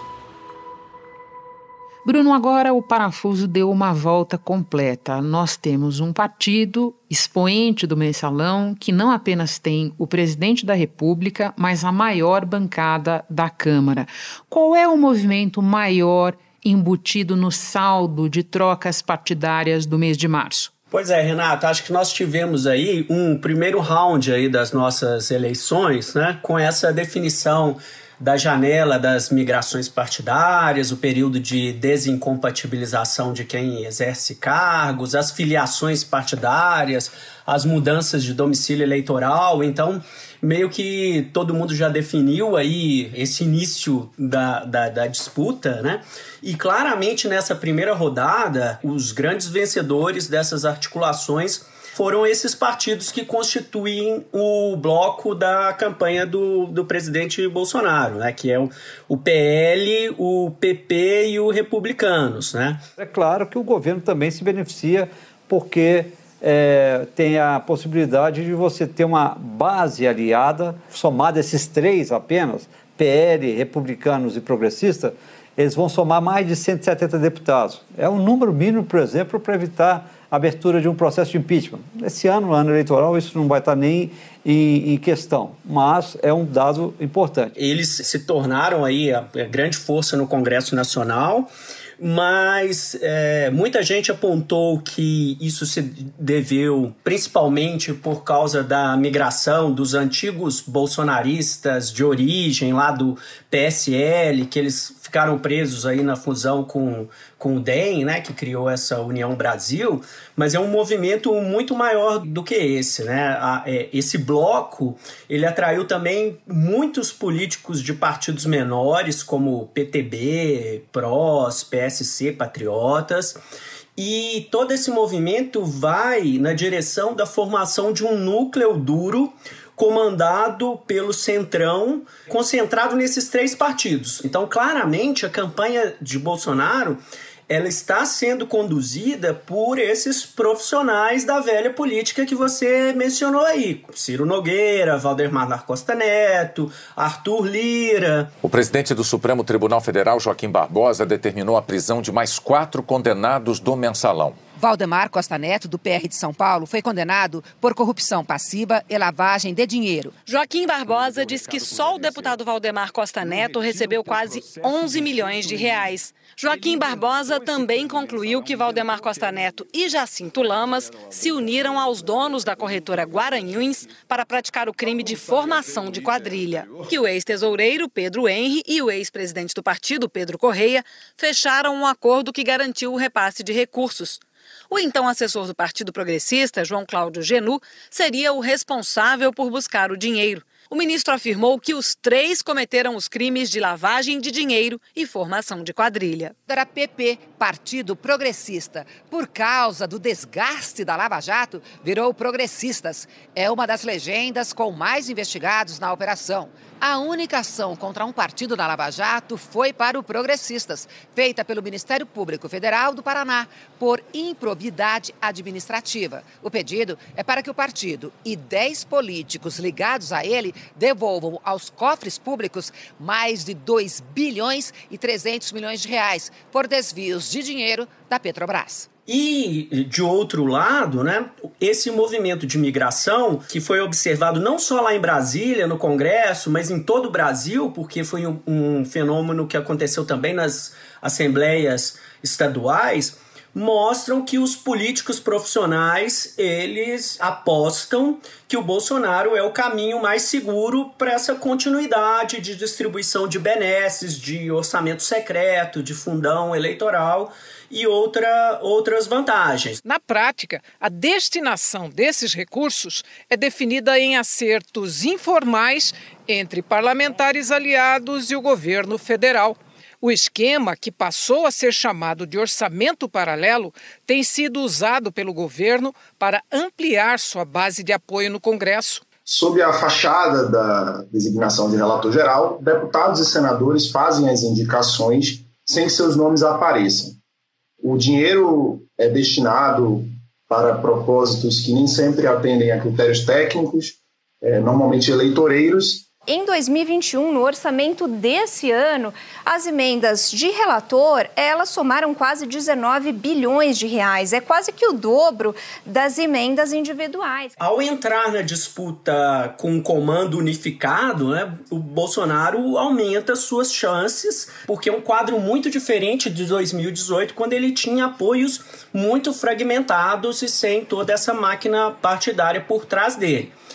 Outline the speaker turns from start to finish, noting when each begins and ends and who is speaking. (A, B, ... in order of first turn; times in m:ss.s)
0:02.0-0:20.7 A
0:20.9-1:02.8 B
1:03.0-1:27.5 C
1:27.6-2:03.4 B
2:04.0-2:28.3 B
2:28.4-2:34.4 D
2:34.6-2:40.1 E
2:40.2-3:16.3 F
3:16.5-3:48.9 E
3:49.1-4:19.8 B
4:19.8-4:39.0 G
4:39.2-4:47.2 H
4:47.8-4:56.1 H
4:56.3-5:07.5 I
5:07.6-5:23.5 B